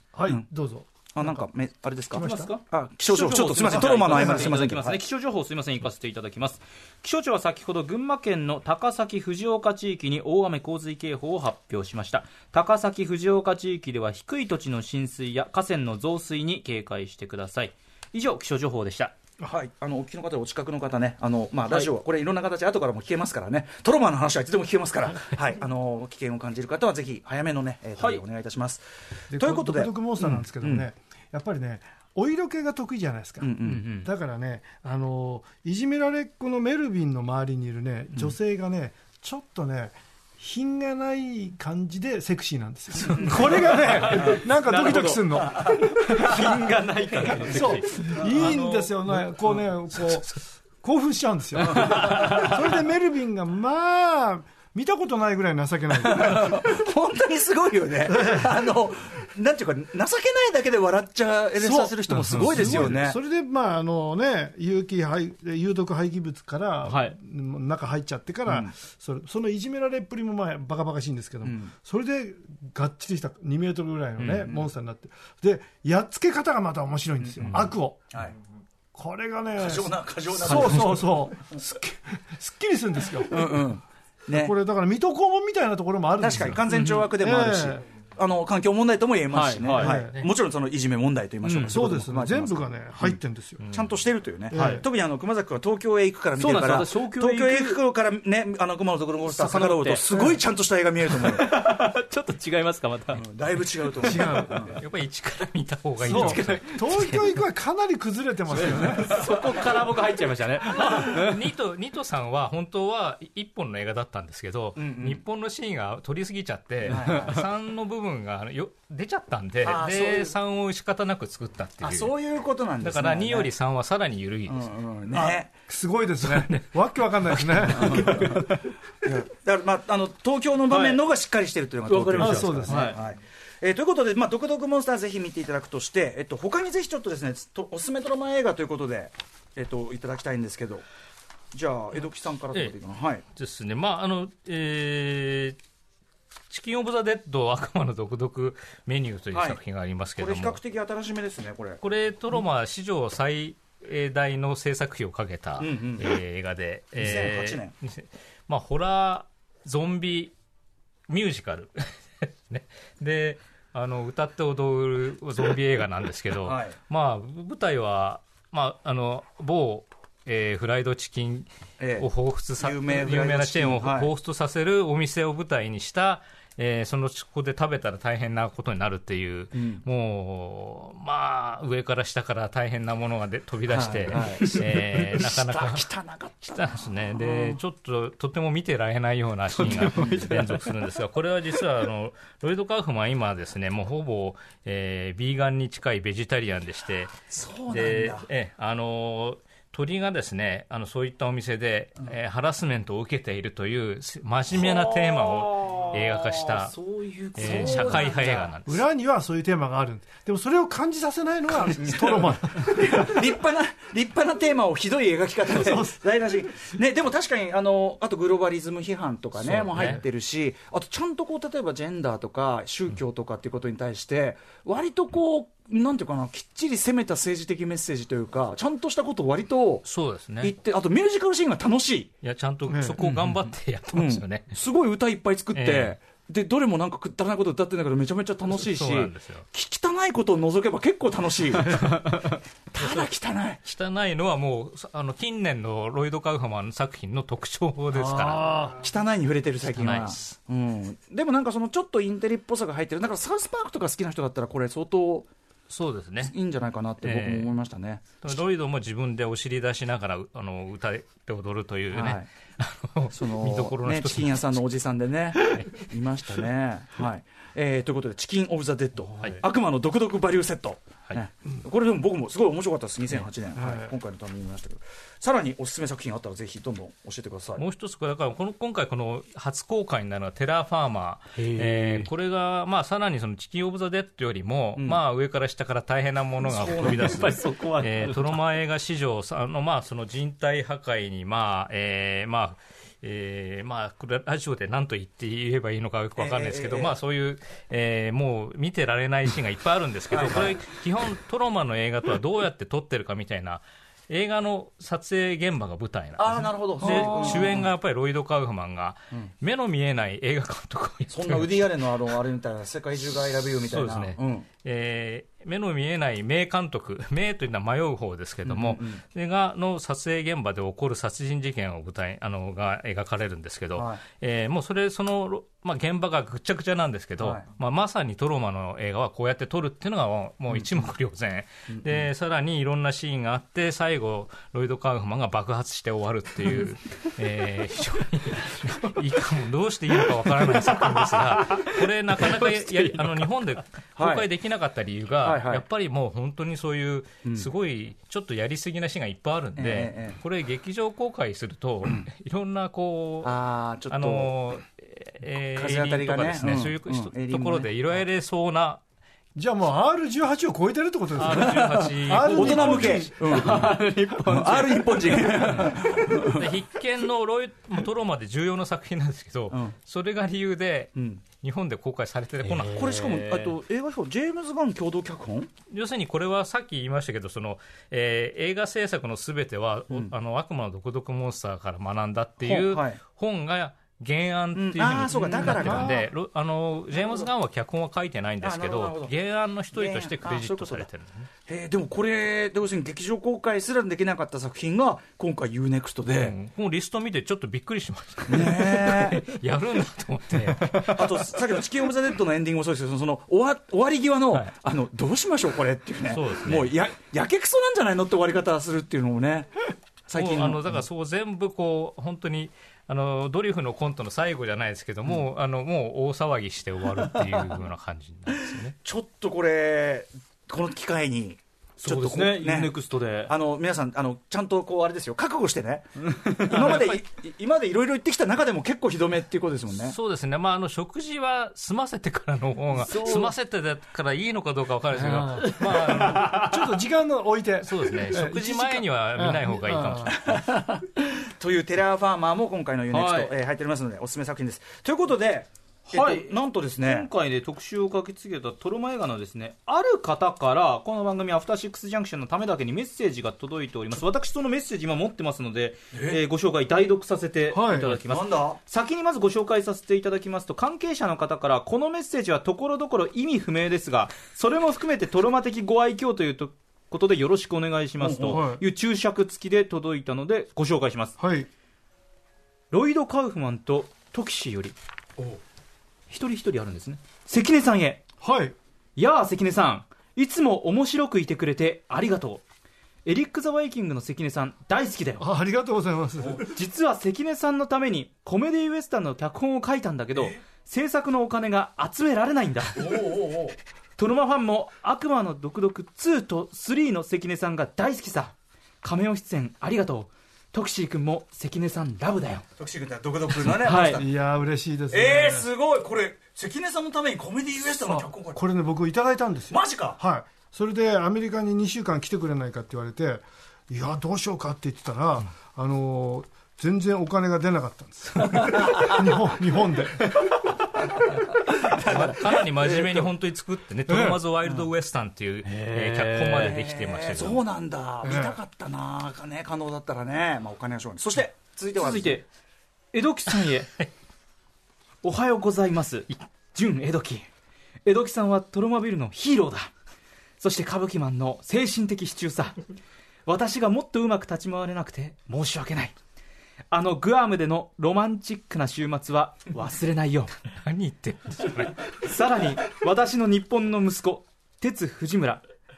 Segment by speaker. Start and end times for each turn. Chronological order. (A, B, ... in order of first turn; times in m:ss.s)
0:00.1-0:01.3 A
0:01.1-0:05.0 B
0:02.1-0:02.5 A
0:02.1-0:19.1 C
0:03.9-0:04.6 A
0:19.4-0:30.9 B
0:28.0-0:28.2 C
0:29.3-0:46.5 A
0:33.4-0:33.8 B
0:33.6-0:34.1 C
0:43.1-0:43.5 B
0:43.1-0:48.9 C
0:47.4-0:56.7 A
0:48.3-0:48.6 D
0:49.9-0:50.2 D
0:51.7-0:52.5 B
0:51.7-0:52.6 C
0:56.0-1:03.2 B
0:58.1-0:58.6 A
1:01.6-1:18.0 A
1:06.8-1:07.2 C
1:08.5-1:08.7 B
1:11.4-1:11.7 B
1:14.2-1:14.5 C
1:17.2-1:18.4 B
1:18.9-1:23.7 A
1:19.6-1:21.6 B
1:20.5-1:20.8 C
1:23.3-1:24.5 B
1:24.3-1:27.8 A
1:26.2-1:33.2 B
1:26.7-1:27.1 C
1:29.3-1:30.0 C
1:29.8-1:30.2 A
1:31.4-1:31.8 C
1:31.7-1:33.6 A
1:33.6-1:34.0 D
1:33.7-1:41.5 B
1:34.5-1:34.8 A
1:36.4-1:37.8 C
1:39.2-1:40.4 C
1:41.1-1:43.2 C
1:43.1-1:44.8 B
1:44.0-1:44.6 A
1:44.8-1:47.3 D
1:46.0-1:49.4 A
1:46.0-1:47.0 C
1:48.5-1:51.4 C
1:50.7-2:02.2 D
1:54.8-1:55.2 B
1:56.8-1:57.4 B
1:59.6-2:00.3 B
2:01.8-2:03.5 B
2:02.8-2:04.7 D
2:04.5-2:05.5 B
2:05.1-2:08.4 A
2:07.4-2:07.7 D
2:07.7-2:08.4 B
2:07.9-2:08.7 C
2:09.0-2:20.8 B
2:10.7-2:11.0 C
2:11.8-2:13.0 C
2:12.2-2:13.0 A
2:21.5-2:23.2 B
2:23.2-2:25.6 D
2:26.5-2:30.6 D
2:29.3-2:29.6 B
2:30.2-2:31.8 B
2:31.8-2:40.3 D
2:35.6-2:36.1 B
2:37.0-2:37.7 B
2:41.1-2:51.5 D
2:46.4-2:46.8 B
2:51.8-2:54.1 B
2:52.0-3:05.8 D
2:59.5-2:59.8 B
3:03.7-3:07.6 B
3:04.4-3:04.8 C
3:06.5-3:17.1 D
3:09.5-3:10.9 C
3:10.0-3:10.2 B
3:17.3-3:18.3 B
3:17.7-3:26.7 D
3:24.8-3:28.4 C
3:27.4-3:28.8 D
3:27.4-3:28.5 B
3:28.6-3:33.2 A
3:31.7-3:49.8 B
3:35.5-3:36.0 A
3:39.4-3:40.0 D
3:49.8-3:50.5 D
3:50.4-3:52.1 B
3:52.2-3:54.5 D
3:52.7-3:53.0 A
3:53.9-4:02.1 B
3:55.5-3:56.0 D
3:58.5-3:59.4 D
4:02.7-4:03.6 B
4:02.8-4:03.1 D
4:03.6-4:08.6 D
4:07.9-4:08.8 A
4:08.7-4:15.3 B
4:09.7-4:10.3 D
4:15.7-4:16.3 D
4:16.2-4:18.1 B
4:17.0-4:17.5 D
4:18.2-4:24.6 D
4:21.9-4:22.3 B
4:23.1-4:37.6 B
4:25.4-4:25.9 D
4:33.5-4:33.9 A
4:37.6-5:11.7 D
4:41.4-4:42.1 C
4:46.4-4:47.2 B
4:46.6-4:48.4 C
4:56.2-4:57.0 B
5:00.1-5:00.6 B
5:06.2-5:07.6 B
5:06.9-5:07.5 C
5:11.1-5:14.5 B
5:13.7-5:53.4 D
5:18.4-5:19.0 B
5:23.8-5:24.0 B
5:27.2-5:27.4 B
5:30.5-5:30.9 B
5:31.7-5:32.1 B
5:40.0-5:43.3 C
5:44.0-5:44.2 B
5:45.2-5:45.6 B
5:47.2-5:47.5 B
5:49.6-5:50.2 B
5:53.2-5:54.3 B
5:53.9-5:58.8 D
5:55.5-5:57.7 B
5:59.3-6:03.1 A
6:01.2-6:03.1 D
6:01.4-6:06.5 B
6:02.4-6:05.7 C
6:06.1-6:12.8 D
6:11.0-6:11.2 B
6:12.4-6:13.5 C
6:12.7-6:15.5 B
6:15.7-6:31.3 D
6:22.4-6:23.0 B
6:24.5-6:25.9 B
6:25.4-6:26.1 A
6:28.4-6:29.1 B
6:29.7-6:30.9 B
6:31.4-6:36.4 B
6:36.2-6:41.0 D
6:38.3-6:39.2 B
6:40.5-6:41.0 C
6:40.9-6:49.6 B
6:46.1-6:46.8 D
6:50.1-6:50.8 B
6:50.1-6:58.7 D
6:58.8-7:02.7 B
7:01.8-7:03.3 C
7:03.2-7:09.9 B
7:06.1-7:06.8 C
7:06.6-7:07.0 D
7:09.7-7:16.7 D
7:12.8-7:13.3 C
7:15.0-7:20.2 A
7:16.1-7:16.4 C
7:17.6-7:20.4 D
7:20.1-7:20.9 B
7:21.4-7:27.1 B
7:22.9-7:23.3 C
7:25.9-7:51.1 C
7:35.9-7:36.2 B
7:37.5-7:38.0 A
7:38.0-7:38.6 B
7:48.0-7:48.4 B
7:48.2-7:48.6 A
7:51.2-7:51.5 A
7:52.7-7:54.8 C
7:56.1-7:58.0 C
7:58.2-7:58.5 A
7:59.0-8:02.4 C
8:03.0-8:05.2 C
8:05.2-8:06.5 A
8:06.4-8:13.1 C
8:12.7-8:13.5 B
8:14.0-8:22.5 C
8:22.6-8:24.1 B
8:23.4-8:24.0 C
8:23.9-8:25.5 A
8:24.9-8:28.4 B
8:27.8-8:40.1 A
8:29.5-8:30.0 B
8:41.5-8:43.0 B
8:41.8-8:47.4 D
8:43.9-8:44.2 A
8:45.4-8:46.6 C
8:46.4-8:52.2 B
8:48.0-8:48.4 A
8:51.8-8:52.2 C
8:52.9-8:53.7 C
8:55.0-8:57.3 C
8:57.8-8:59.7 C
9:00.4-9:02.6 C
9:03.2-9:05.9 C
9:06.7-9:10.4 C
9:10.5-9:11.9 D
9:11.9-9:15.4 C